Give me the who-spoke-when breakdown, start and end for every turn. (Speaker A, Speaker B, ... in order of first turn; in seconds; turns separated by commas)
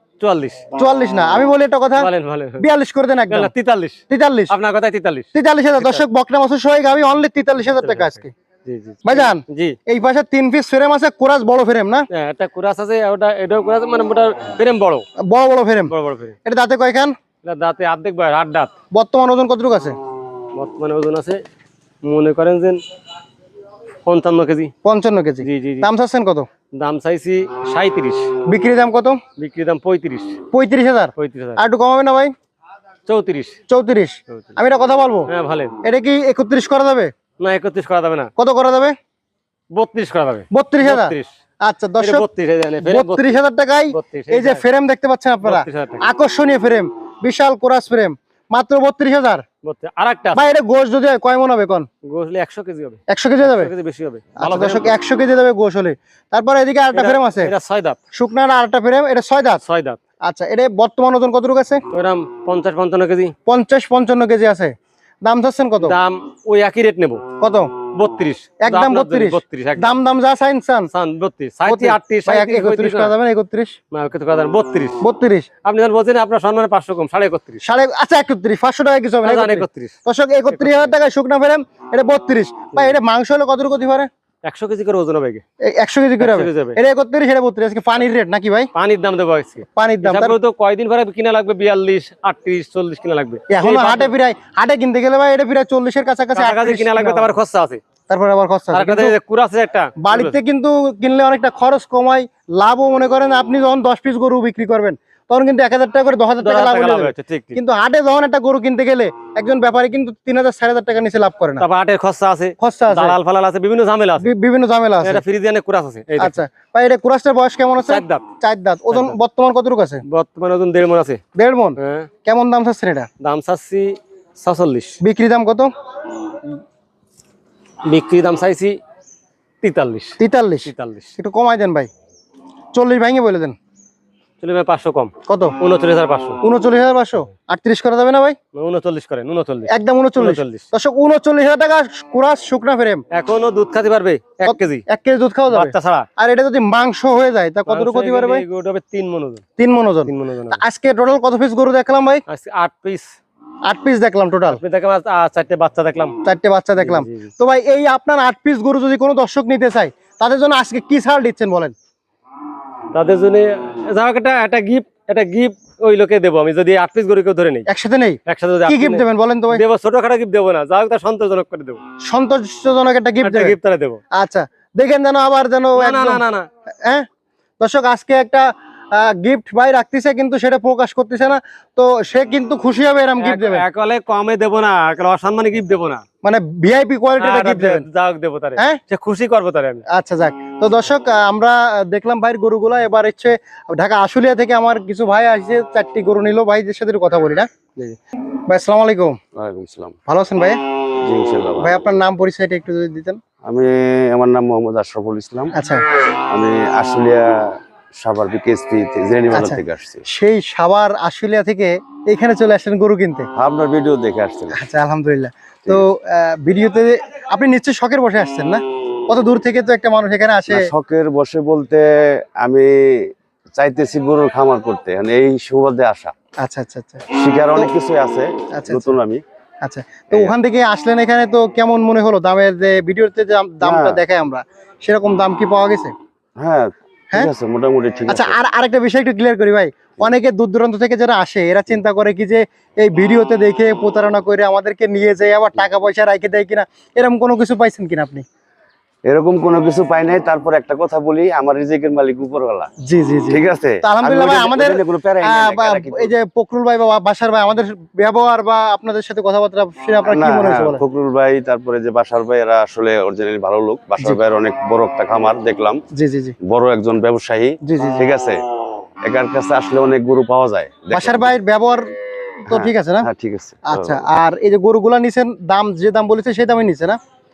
Speaker A: 0.2-0.7, Speaker B: 0.8-3.5, Speaker A: 2.0-2.7, Speaker A: 3.3-6.0, Speaker B: 4.1-4.5, Speaker B: 5.3-8.3, Speaker A: 7.8-9.8, Speaker B: 9.1-12.1, Speaker A: 12.1-15.1, Speaker B: 15.2-15.9, Speaker A: 15.9-16.4, Speaker B: 16.4-17.1, Speaker A: 17.4-18.7, Speaker B: 18.9-20.0, Speaker A: 20.5-21.4, Speaker A: 22.0-22.8, Speaker A: 24.1-24.7, Speaker B: 24.8-26.5, Speaker A: 25.4-25.9, Speaker A: 26.8-28.3, Speaker B: 28.5-29.2, Speaker A: 29.4-30.4, Speaker B: 30.5-32.3, Speaker A: 31.2-31.6, Speaker A: 33.1-33.6, Speaker B: 33.7-35.3, Speaker A: 35.3-35.7, Speaker B: 35.8-37.1, Speaker A: 37.4-38.3, Speaker B: 38.4-39.0, Speaker A: 39.7-41.3, Speaker B: 40.5-42.3, Speaker A: 42.0-43.4, Speaker B: 42.8-49.4, Speaker A: 43.9-44.6, Speaker A: 45.4-46.1, Speaker A: 49.6-50.5, Speaker B: 50.3-51.9, Speaker A: 52.1-54.9, Speaker B: 53.1-53.7, Speaker B: 54.4-57.5, Speaker A: 56.9-58.0, Speaker B: 58.1-59.6, Speaker A: 59.6-60.0, Speaker B: 60.2-61.8, Speaker A: 61.9-63.3, Speaker B: 63.5-66.0, Speaker A: 65.8-67.2, Speaker B: 67.4-67.7, Speaker A: 67.9-70.0, Speaker B: 68.6-70.9, Speaker A: 70.9-73.2, Speaker B: 71.7-73.8, Speaker A: 73.9-75.0, Speaker B: 75.0-75.5, Speaker A: 75.6-77.6, Speaker B: 77.6-84.1, Speaker A: 79.2-80.0, Speaker A: 80.5-80.9, Speaker A: 84.4-85.4, Speaker B: 85.6-88.7, Speaker A: 86.2-86.8, Speaker A: 88.8-94.1, Speaker B: 89.7-90.4, Speaker B: 93.5-97.3, Speaker A: 96.3-97.8, Speaker B: 98.1-99.2, Speaker A: 98.7-100.4, Speaker B: 100.0-111.6, Speaker A: 106.4-107.6, Speaker A: 111.6-114.3, Speaker B: 112.6-113.2, Speaker B: 114.2-115.2, Speaker A: 115.0-116.4, Speaker B: 116.2-120.0, Speaker A: 117.8-118.2, Speaker A: 120.1-121.2, Speaker B: 121.3-123.1, Speaker A: 121.8-122.1, Speaker A: 123.2-125.0, Speaker B: 125.0-125.7, Speaker A: 127.8-128.8, Speaker A: 129.6-131.2, Speaker B: 130.2-131.9, Speaker B: 132.7-133.6, Speaker A: 134.4-136.4, Speaker B: 135.3-135.6, Speaker B: 136.4-138.4, Speaker A: 138.6-140.7, Speaker B: 139.7-143.0, Speaker A: 143.1-144.8, Speaker B: 144.5-148.4, Speaker A: 145.5-146.1, Speaker A: 147.7-149.4, Speaker B: 149.6-152.2, Speaker A: 150.1-150.6, Speaker A: 152.3-153.2, Speaker B: 153.7-154.6, Speaker A: 154.5-156.2, Speaker B: 156.2-161.7, Speaker A: 156.8-157.3, Speaker A: 162.9-167.7, Speaker B: 167.7-169.6, Speaker A: 168.3-171.8, Speaker B: 172.0-173.6, Speaker A: 173.2-174.0, Speaker B: 174.1-176.2, Speaker A: 175.8-176.5, Speaker B: 177.6-183.6, Speaker A: 183.2-186.0, Speaker B: 186.2-187.9, Speaker A: 187.2-189.8, Speaker B: 189.9-197.5, Speaker B: 198.5-199.2, Speaker C: 199.4-200.0, Speaker B: 200.1-200.6, Speaker C: 201.0-201.8, Speaker B: 201.6-203.2, Speaker C: 203.4-205.5, Speaker B: 205.5-205.8, Speaker C: 206.3-210.0, Speaker B: 209.3-213.3, Speaker C: 213.3-214.6, Speaker B: 214.5-220.7, Speaker C: 220.5-226.1, Speaker B: 226.4-227.7, Speaker C: 227.1-229.2, Speaker B: 228.5-229.0, Speaker B: 229.6-235.9, Speaker C: 233.6-234.0, Speaker C: 236.4-238.4, Speaker B: 238.1-248.2, Speaker C: 249.1-252.7, Speaker B: 252.8-260.8, Speaker C: 253.3-256.1, Speaker C: 260.1-265.8, Speaker B: 265.9-266.4, Speaker C: 266.4-268.4, Speaker B: 267.6-268.1, Speaker C: 269.1-271.4, Speaker B: 270.9-271.9, Speaker B: 272.5-273.1, Speaker C: 272.5-274.1, Speaker B: 273.6-277.0